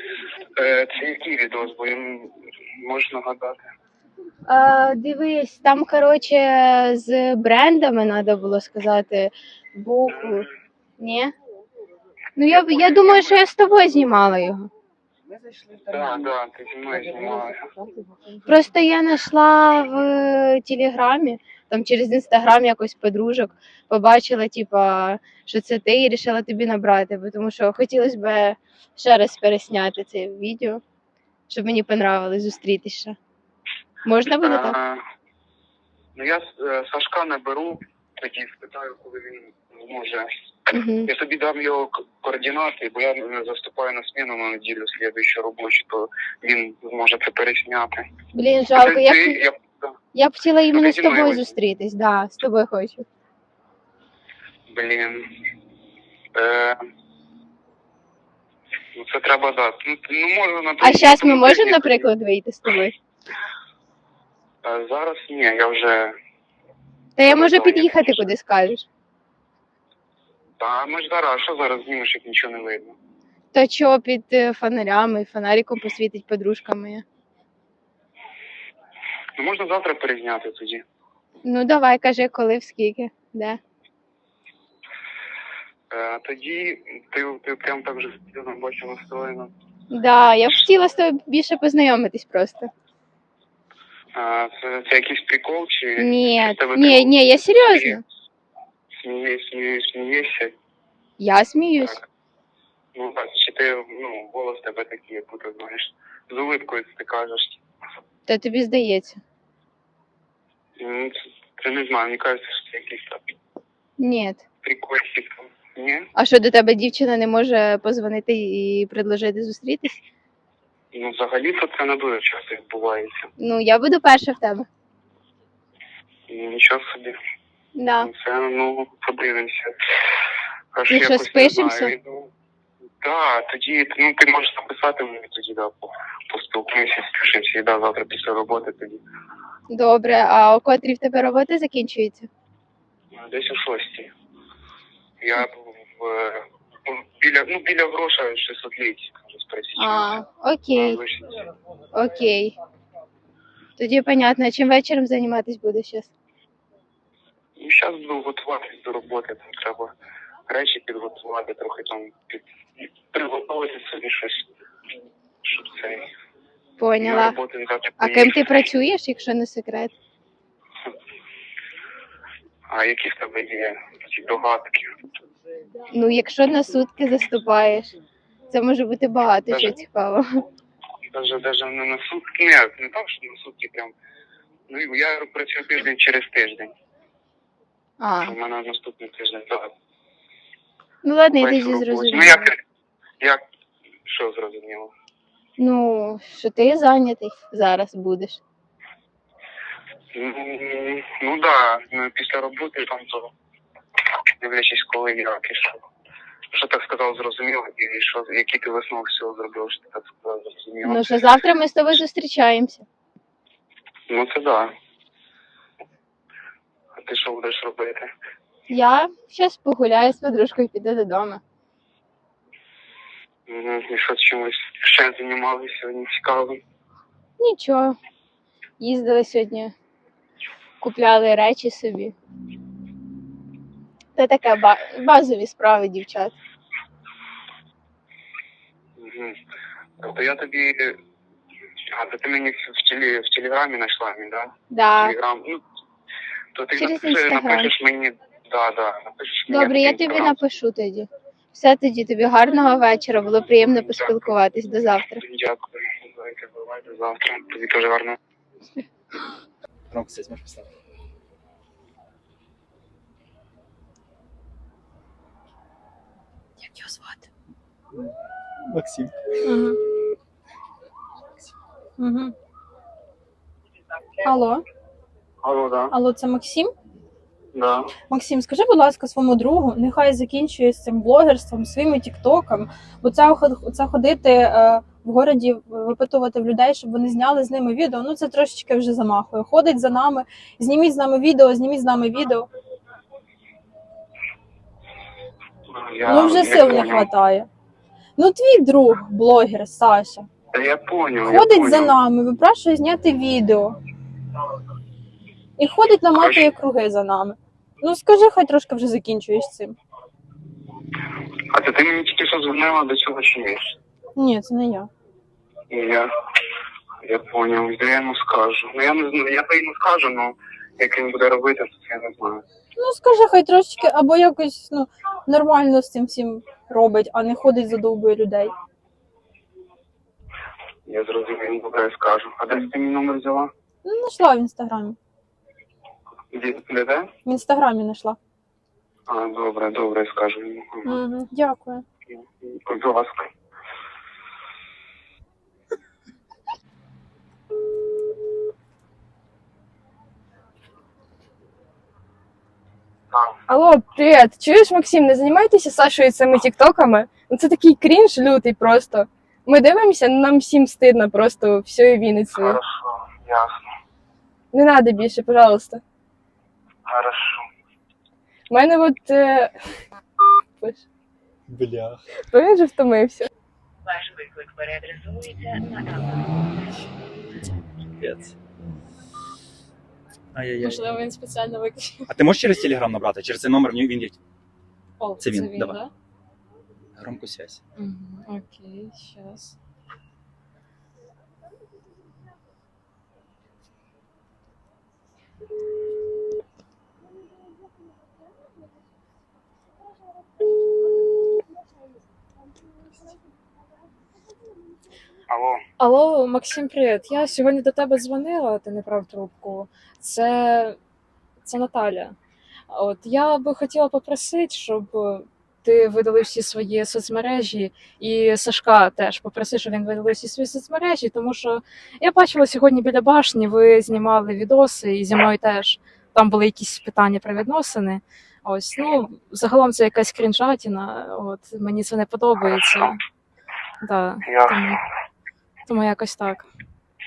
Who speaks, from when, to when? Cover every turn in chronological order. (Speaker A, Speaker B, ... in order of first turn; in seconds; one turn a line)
Speaker A: 0.6-3.6
Speaker B: 4.5-10.4
Speaker A: 10.1-10.4
Speaker B: 11.0-11.3
Speaker B: 12.4-14.7
Speaker A: 12.5-13.4
Speaker A: 15.8-17.7
Speaker B: 18.4-30.8
Speaker B: 31.5-33.1
Speaker B: 34.0-34.8
Speaker A: 34.3-35.0
Speaker A: 36.1-48.0
Speaker B: 40.7-41.1
Speaker B: 48.3-49.4
Speaker A: 48.7-49.8
Speaker B: 50.1-53.0
Speaker A: 50.7-51.6
Speaker A: 54.7-55.3
Speaker A: 56.3-56.8
Speaker A: 59.0-62.1
Speaker B: 60.8-62.9
Speaker A: 64.6-66.1
Speaker B: 67.2-68.8
Speaker A: 67.2-68.3
Speaker A: 70.6-73.0
Speaker B: 73.5-77.0
Speaker A: 79.4-80.8
Speaker B: 81.4-83.6
Speaker A: 85.9-89.5
Speaker B: 89.9-92.7
Speaker A: 94.1-98.0
Speaker B: 96.0-98.0
Speaker A: 99.0-100.5
Speaker B: 101.2-102.0
Speaker A: 102.9-107.6
Speaker B: 108.3-109.2
Speaker A: 110.8-113.3
Speaker B: 114.0-114.4
Speaker A: 114.6-116.1
Speaker B: 116.2-120.0
Speaker A: 120.9-123.3
Speaker B: 123.4-124.7
Speaker A: 126.3-127.2
Speaker B: 127.8-128.1
Speaker A: 128.0-129.7
Speaker A: 130.7-132.3
Speaker B: 130.9-131.9
Speaker A: 133.0-139.0
Speaker B: 139.7-142.3
Speaker A: 143.1-144.1
Speaker A: 145.2-150.2
Speaker B: 149.8-151.0
Speaker A: 150.7-151.4
Speaker B: 151.9-152.5
Speaker B: 153.8-156.1
Speaker A: 157.6-159.9
Speaker A: 160.5-164.4
Speaker A: 165.4-166.1
Speaker B: 166.8-167.4
Speaker A: 167.0-168.5
Speaker B: 168.0-169.9
Speaker A: 172.7-174.9
Speaker B: 175.9-177.9
Speaker B: 178.5-180.3
Speaker A: 179.5-179.8
Speaker A: 181.1-183.9
Speaker A: 184.7-186.7
Speaker B: 188.0-188.3
Speaker A: 188.2-189.7
Speaker B: 191.0-192.5
Speaker A: 191.4-192.6
Speaker A: 194.1-194.9
Speaker B: 195.6-198.4
Speaker A: 200.1-203.3
Speaker A: 204.4-205.8
Speaker A: 206.5-211.2
Speaker B: 210.8-212.8
Speaker A: 214.1-214.7
Speaker A: 216.9-218.1
Speaker B: 218.7-221.4
Speaker A: 223.5-226.6
Speaker B: 227.4-228.0
Speaker B: 228.8-229.7
Speaker B: 230.8-232.1
Speaker B: 234.2-236.3
Speaker A: 239.0-239.3
Speaker A: 240.0-241.0
Speaker A: 241.9-245.6
Speaker B: 244.7-245.1
Speaker A: 246.5-250.4
Speaker B: 246.8-247.7
Speaker B: 249.5-255.2
Speaker A: 253.8-254.3
Speaker A: 255.2-258.2
Speaker C: 259.9-260.7
Speaker D: 266.6-267.2
Speaker C: 268.7-269.1
Speaker D: 269.4-269.7
Speaker D: 272.0-272.3
Speaker D: 274.3-274.6
Speaker A: 275.4-275.9
Speaker D: 275.9-276.7
Speaker A: 277.5-277.9
Speaker D: 278.1-292.4
Speaker A: 295.7-297.1
Speaker D: 296.1-297.5
Speaker D: 298.2-300.3
Speaker A: 300.5-301.9
Speaker D: 301.3-303.7
Speaker D: 305.6-309.7
Speaker A: 306.1-306.5
Speaker A: 311.5-313.8
Speaker D: 314.2-314.9
Speaker A: 315.7-316.1
Speaker A: 317.0-322.4
Speaker D: 322.8-328.5
Speaker A: 330.9-333.5
Speaker D: 333.9-334.9
Speaker A: 336.3-337.1
Speaker D: 337.2-338.1
Speaker A: 339.1-341.0
Speaker D: 340.9-341.8
Speaker A: 342.1-343.3
Speaker E: 353.5-362.6
Speaker A: 362.3-363.6
Speaker E: 364.5-365.8
Speaker A: 366.9-367.4
Speaker E: 368.5-369.5
Speaker C: 371.5-372.0
Speaker E: 372.3-373.3
Speaker F: 373.9-376.0
Speaker C: 378.0-378.3
Speaker C: 380.3-381.0
Speaker G: 380.6-382.0
Speaker C: 382.1-384.2
Speaker G: 385.0-385.9
Speaker C: 385.2-385.8
Speaker C: 387.0-387.6
Speaker G: 387.8-389.6
Speaker A: 405.3-405.6
Speaker G: 405.8-410.8
Speaker G: 411.4-412.1
Speaker G: 412.7-433.0
Speaker A: 432.4-432.9
Speaker G: 433.8-434.8
Speaker A: 434.2-434.7
Speaker G: 435.7-436.5